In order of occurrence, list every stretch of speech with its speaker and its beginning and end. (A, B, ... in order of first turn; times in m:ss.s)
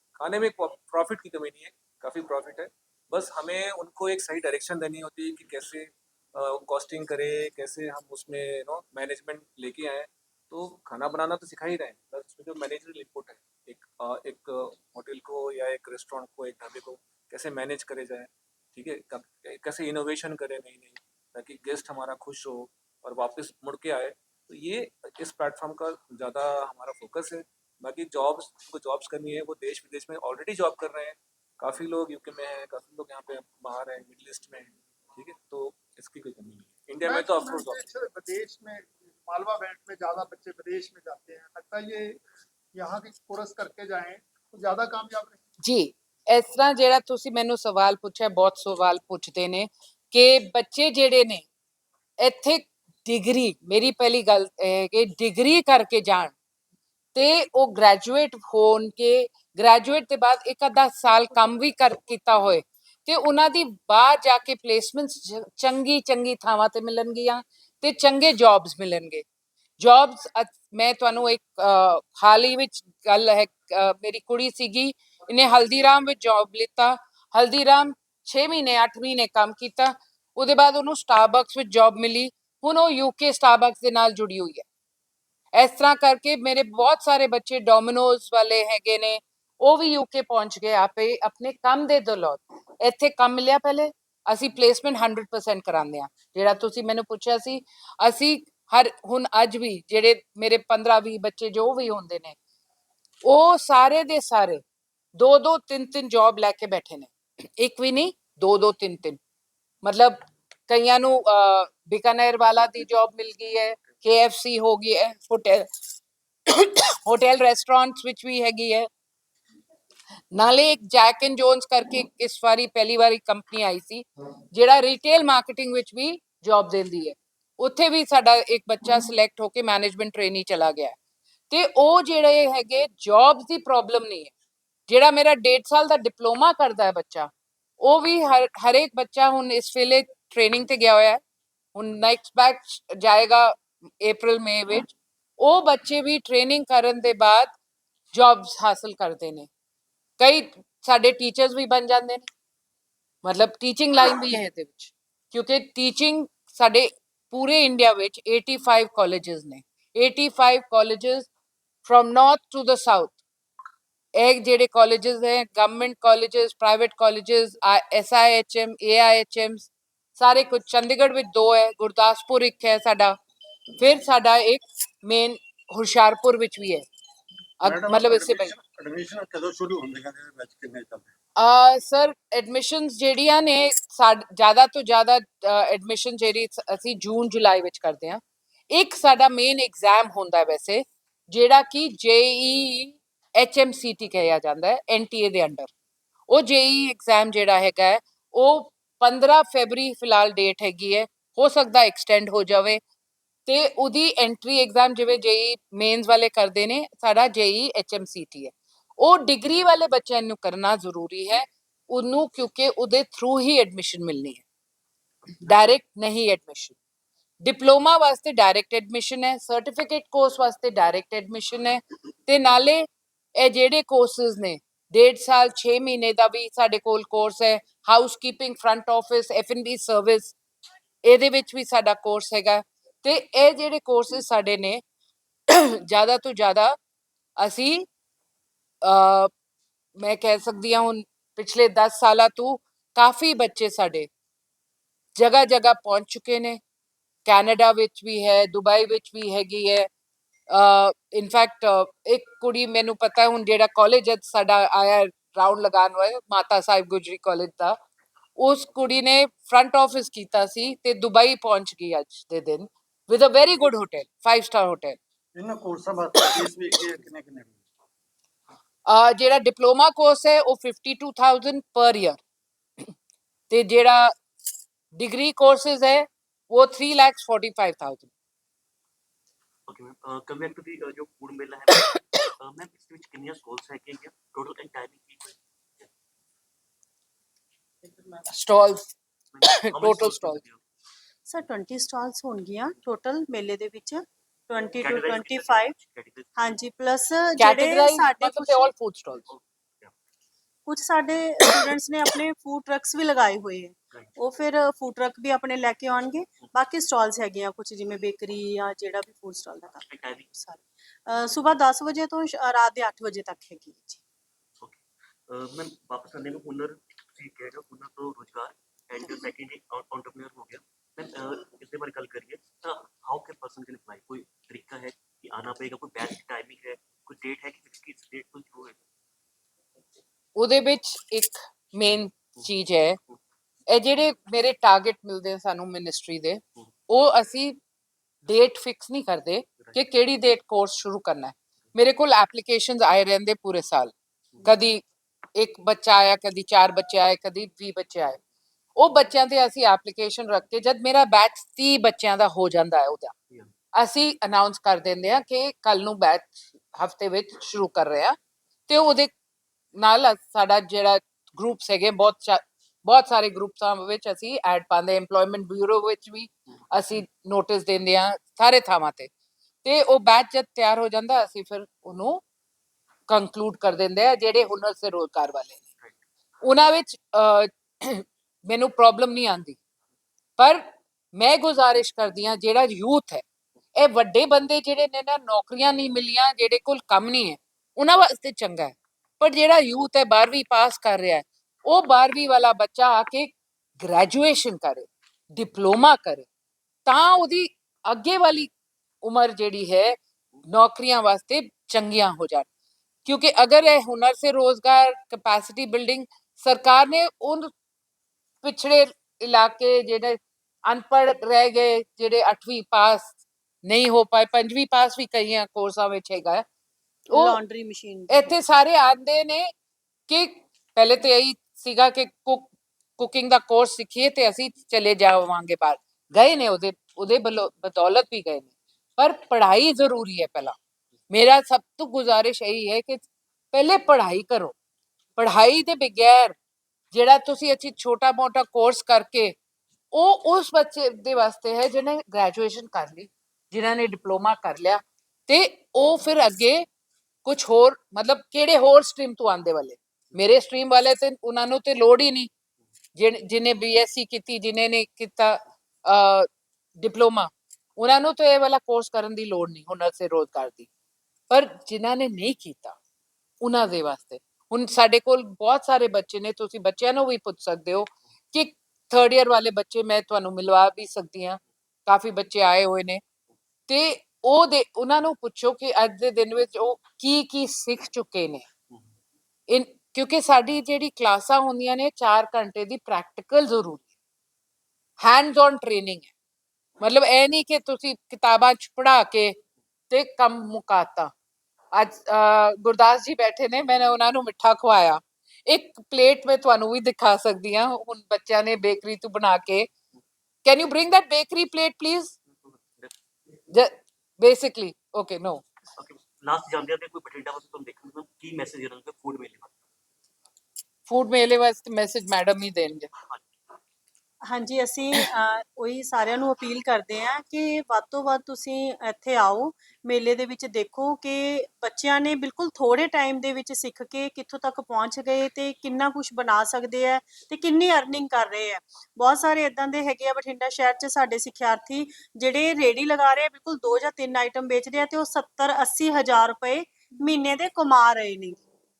0:00.2-0:37.9 A
0:37.0-0:42.2 B
0:42.7-0:45.4 B
0:45.6-0:51.4 C
0:52.2-0:56.3 C
0:57.1-1:09.2 C
1:09.8-1:24.6 C
1:25.5-1:42.4 C
1:43.2-1:44.6 C
1:45.2-1:49.2 C
1:49.8-1:55.7 C
1:56.5-1:58.9 C
2:00.3-2:10.9 C
2:11.5-2:14.3 C
2:14.9-2:17.3 C
2:17.8-2:21.2 C
2:21.7-2:27.5 C
2:28.1-2:29.5 C
2:30.2-2:32.3 C
2:33.2-2:41.3 C
2:41.8-2:43.2 C
2:44.2-2:53.2 C
2:53.8-2:56.8 C
2:57.6-2:58.5 C
2:57.6-3:01.1 D
3:01.4-3:15.7 C
3:16.3-3:22.8 C
3:23.5-3:34.4 C
3:35.4-3:36.8 C
3:37.4-3:42.8 C
3:43.4-3:50.4 C
3:51.0-3:54.8 C
3:55.5-3:56.8 C
3:57.4-3:57.9 C
3:58.8-3:59.3 C
4:00.0-4:04.1 C
4:05.2-4:06.6 C
4:07.2-4:09.9 C
4:10.5-4:17.8 C
4:18.4-4:25.0 C
4:25.3-4:27.6 D
4:28.9-4:32.2 C
4:33.5-4:34.1 C
4:34.9-4:38.1 C
4:39.7-4:45.9 E
4:48.3-4:50.4 C
4:49.3-4:50.6 E
4:51.3-4:55.7 F
4:54.8-4:56.3 E
4:56.4-4:58.7 F
4:57.4-4:59.2 C
4:59.3-4:59.9 E
5:00.6-5:09.8 F
5:09.8-5:10.3 E
5:10.3-5:14.0 F
5:14.6-5:28.8 E
5:30.4-5:33.0 C
5:33.7-5:37.6 C
5:38.2-5:43.9 C
5:44.4-5:44.8 C
5:45.4-5:48.2 C
5:48.8-5:53.1 C
5:53.7-5:58.2 C
5:58.7-5:59.1 C
5:59.7-6:09.1 C
6:09.6-6:12.2 C
6:13.1-6:15.6 C
6:16.4-6:19.6 C
6:20.4-6:20.6 C
6:21.1-6:23.2 C
6:23.8-6:36.3 C
6:36.8-6:38.5 C
6:39.0-6:39.9 C
6:40.5-6:42.5 C
6:43.0-6:47.5 C
6:48.4-6:53.1 C
6:53.6-6:56.4 C
6:57.1-6:57.4 C
6:57.1-6:58.3 F
6:58.1-6:59.5 C
7:00.1-7:10.5 C
7:11.1-7:14.5 C
7:15.2-7:16.4 C
7:16.9-7:19.3 C
7:19.9-7:26.6 C
7:27.2-7:32.3 C
7:33.0-7:40.7 C
7:41.3-7:42.8 C
7:43.4-7:53.0 C
7:53.7-7:58.4 C
7:59.5-8:03.9 C
8:05.0-8:06.1 C
8:06.8-8:09.4 C
8:09.9-8:11.1 C
8:11.7-8:19.7 C
8:20.4-8:22.1 C
8:23.5-8:25.4 C
8:25.8-8:29.6 E
8:30.9-8:32.9 C
8:34.3-8:58.4 F